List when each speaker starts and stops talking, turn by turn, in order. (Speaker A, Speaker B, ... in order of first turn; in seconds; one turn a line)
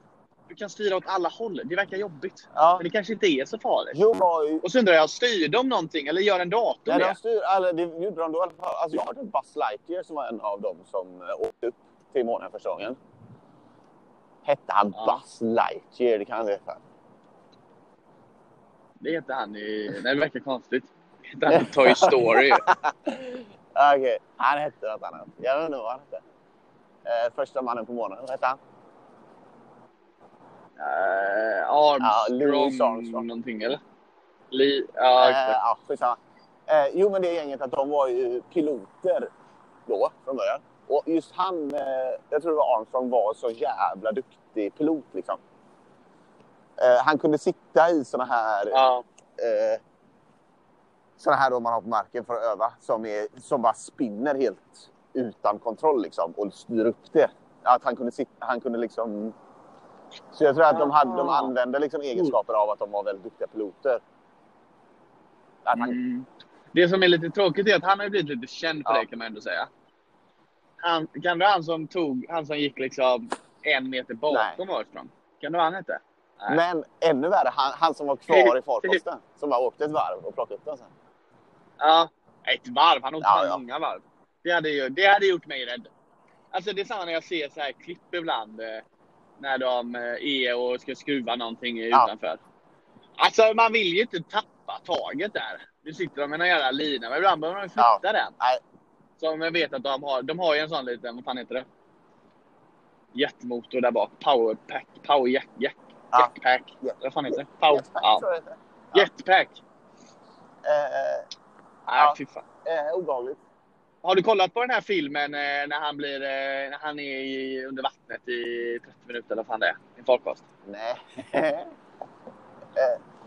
Speaker A: 0.5-4.0
Speaker B: 2.5-2.9
Speaker B: 3.9-4.6
Speaker A: 4.6-7.2
Speaker B: 6.9-13.0
Speaker B: 14.4-16.8
Speaker A: 14.9-15.2
Speaker A: 19.0-22.7
Speaker B: 21.5-26.2
Speaker B: 27.1-28.6
Speaker A: 30.8-33.8
Speaker B: 32.0-33.2
Speaker A: 34.5-35.6
Speaker B: 35.2-39.3
Speaker B: 39.9-45.4
Speaker B: 46.8-48.8
Speaker A: 48.7-49.0
Speaker B: 49.4-49.8
Speaker B: 51.2-59.4
Speaker B: 60.3-64.0
Speaker A: 60.7-61.5
Speaker B: 65.7-66.0
Speaker A: 65.8-69.7
Speaker A: 70.8-76.6
Speaker B: 74.3-74.6
Speaker B: 76.5-80.9
Speaker A: 78.3-79.0
Speaker A: 81.8-85.9
Speaker B: 83.2-83.6
Speaker A: 86.5-88.8
Speaker A: 89.4-92.4
Speaker A: 93.2-98.3
Speaker B: 97.8-98.6
Speaker A: 99.2-101.7
Speaker A: 103.2-108.2
Speaker B: 106.1-109.1
Speaker A: 108.9-109.6
Speaker B: 110.7-111.3
Speaker A: 111.9-112.5
Speaker B: 112.0-113.4
Speaker A: 114.0-120.4
Speaker B: 120.7-121.7